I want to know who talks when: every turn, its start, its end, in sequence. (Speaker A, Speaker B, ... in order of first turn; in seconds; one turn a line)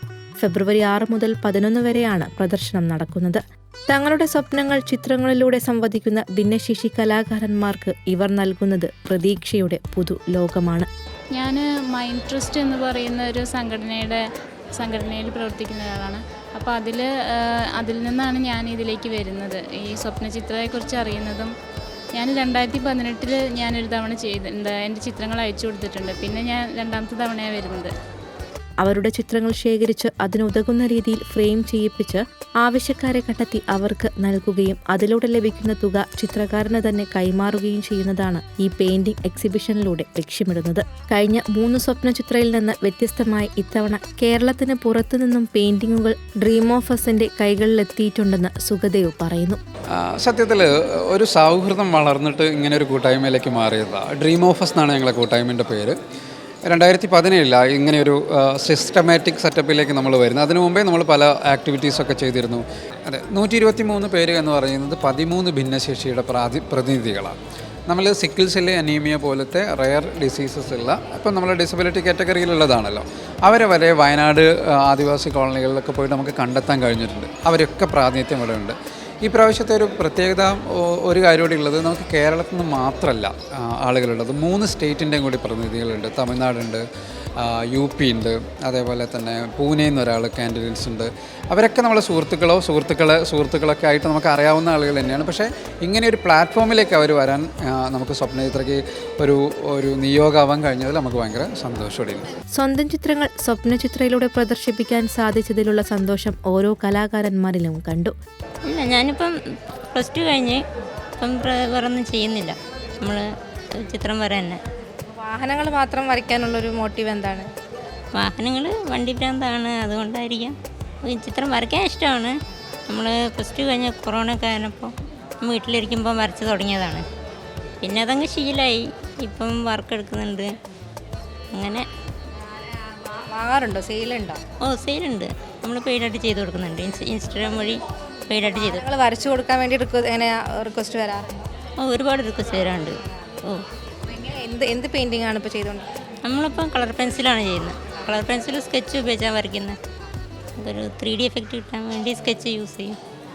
Speaker A: 0.4-10.9
Speaker B: 11.3-14.2
Speaker B: 14.8-21.5
Speaker B: 22.1-27.9
Speaker A: 28.8-49.6
Speaker C: 49.9-56.0
Speaker C: 56.6-86.8
Speaker C: 87.4-102.2
Speaker A: 102.5-108.1
Speaker D: 108.7-109.3
Speaker D: 109.9-110.6
Speaker D: 111.2-113.2
Speaker D: 113.8-114.6
Speaker E: 115.1-117.5
Speaker D: 118.2-122.3
Speaker D: 122.9-124.9
Speaker D: 125.4-127.0
Speaker D: 127.8-130.5
Speaker D: 131.5-131.8
Speaker E: 133.2-134.4
Speaker D: 134.6-138.8
Speaker E: 138.5-141.5
Speaker D: 141.8-142.9
Speaker E: 144.1-145.9
Speaker D: 146.2-149.7
Speaker D: 150.6-152.9